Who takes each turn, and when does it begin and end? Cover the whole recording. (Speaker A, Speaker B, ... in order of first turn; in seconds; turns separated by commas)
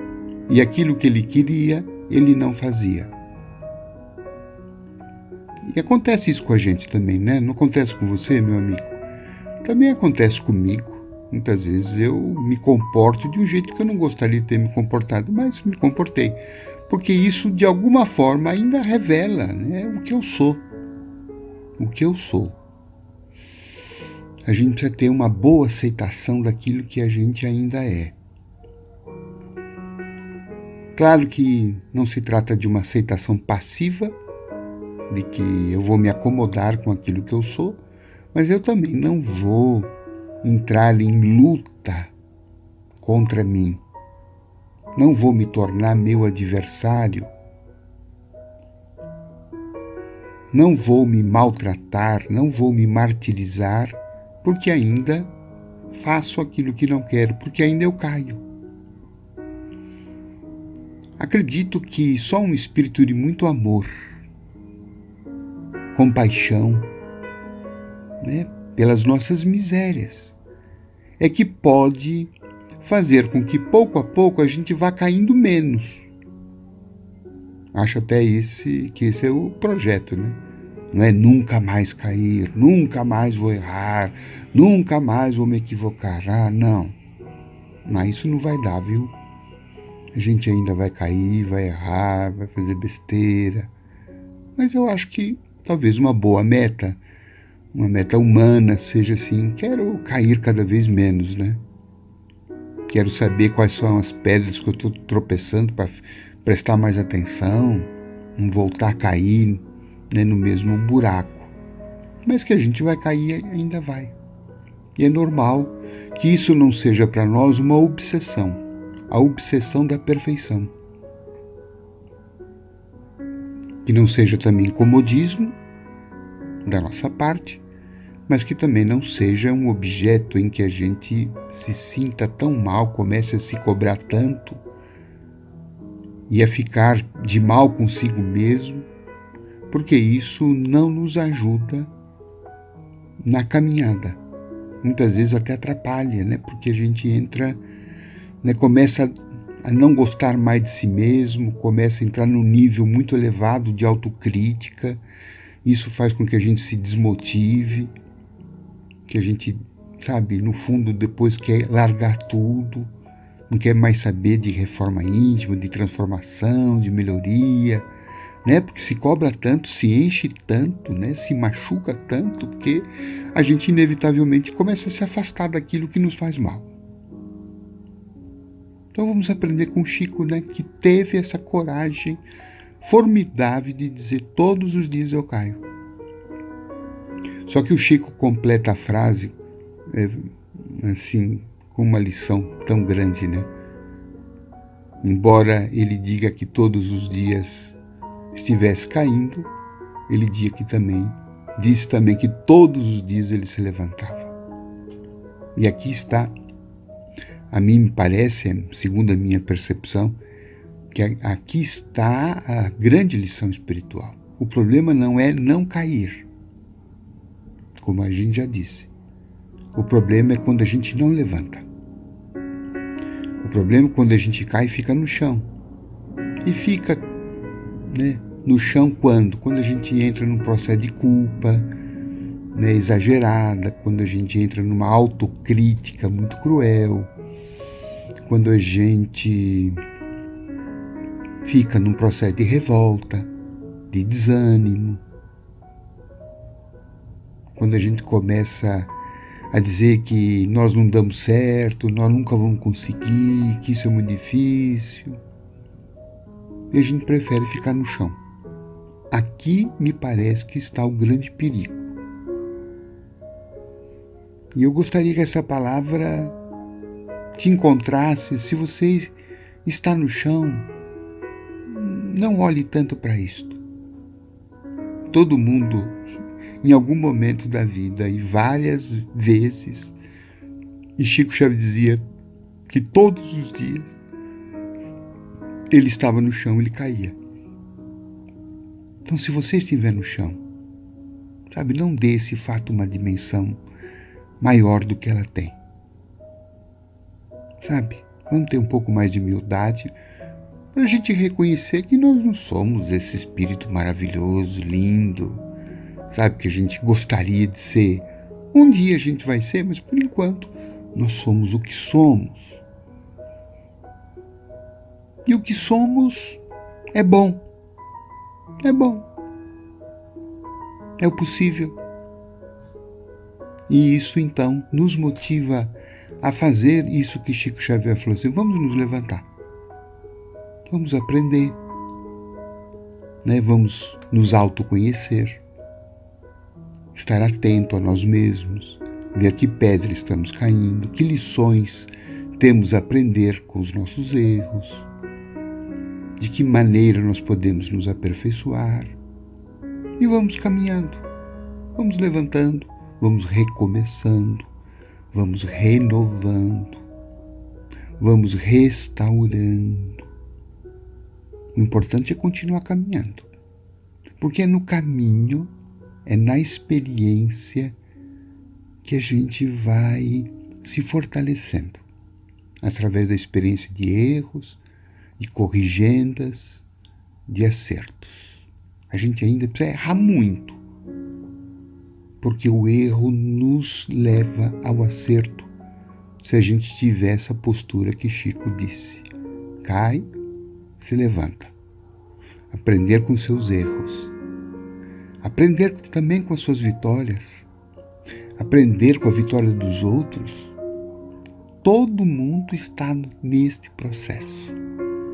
Speaker A: 0.5-3.1, Speaker A: 5.7-9.0, Speaker A: 9.6-20.6, Speaker A: 21.8-22.6, Speaker A: 24.4-28.2, Speaker A: 30.9-34.2, Speaker A: 35.1-37.8, Speaker A: 38.3-42.1, Speaker A: 43.0-43.8, Speaker A: 45.0-47.3, Speaker A: 50.5-55.3, Speaker A: 55.9-58.4, Speaker A: 61.2-63.9, Speaker A: 65.9-66.9, Speaker A: 68.2-70.4, Speaker A: 71.2-76.1, Speaker A: 77.7-80.4, Speaker A: 80.9-87.0, Speaker A: 87.8-89.2, Speaker A: 90.1-93.7, Speaker A: 94.6-97.0, Speaker A: 97.7-101.6, Speaker A: 102.9-111.5, Speaker A: 112.2-114.2, Speaker A: 115.0-120.7, Speaker A: 123.8-125.6, Speaker A: 126.6-127.6, Speaker A: 128.3-134.6, Speaker A: 136.3-138.9, Speaker A: 139.7-141.9, Speaker A: 143.2-144.2, Speaker A: 144.8-147.6, Speaker A: 148.4-155.0, Speaker A: 155.6-157.9, Speaker A: 159.1-162.9, Speaker A: 163.5-167.9, Speaker A: 168.4-176.7, Speaker A: 178.9-182.2, Speaker A: 182.8-185.6, Speaker A: 187.4-189.4, Speaker A: 189.9-193.5, Speaker A: 195.0-197.8, Speaker A: 198.3-199.5, Speaker A: 200.1-204.3, Speaker A: 205.6-206.3, Speaker A: 207.5-210.2, Speaker A: 210.9-216.3, Speaker A: 217.8-218.9, Speaker A: 219.7-221.7, Speaker A: 223.4-225.5, Speaker A: 226.4-227.1, Speaker A: 227.9-231.7, Speaker A: 232.5-237.1, Speaker A: 238.2-239.8, Speaker A: 241.4-243.3, Speaker A: 243.9-245.0, Speaker A: 247.6-248.9, Speaker A: 249.5-255.2, Speaker A: 256.7-258.2, Speaker A: 259.1-261.9, Speaker A: 264.5-266.4, Speaker A: 267.4-269.1, Speaker A: 269.6-270.7, Speaker A: 271.7-273.6, Speaker A: 275.1-276.0, Speaker A: 276.6-280.0, Speaker A: 281.0-282.0, Speaker A: 282.7-284.0, Speaker A: 285.7-287.2, Speaker A: 289.1-290.4, Speaker A: 291.5-293.6, Speaker A: 294.4-295.6, Speaker A: 297.6-299.9, Speaker A: 300.7-305.4, Speaker A: 306.1-312.6, Speaker A: 315.3-316.4, Speaker A: 316.9-317.4, Speaker A: 318.6-319.1, Speaker A: 321.0-321.8, Speaker A: 323.7-329.3, Speaker A: 330.7-331.6, Speaker A: 333.2-335.4, Speaker A: 336.9-344.9, Speaker A: 346.2-349.0, Speaker A: 350.0-351.1, Speaker A: 351.8-354.5, Speaker A: 355.1-356.8, Speaker A: 358.0-360.1, Speaker A: 361.5-363.3, Speaker A: 364.2-365.5, Speaker A: 366.1-367.8, Speaker A: 368.8-371.8, Speaker A: 372.6-374.6, Speaker A: 375.2-376.6, Speaker A: 377.3-380.6, Speaker A: 382.2-385.5, Speaker A: 386.2-389.1, Speaker A: 389.6-390.1, Speaker A: 390.8-391.5, Speaker A: 392.5-394.1, Speaker A: 395.2-397.5, Speaker A: 398.4-400.6, Speaker A: 401.6-404.6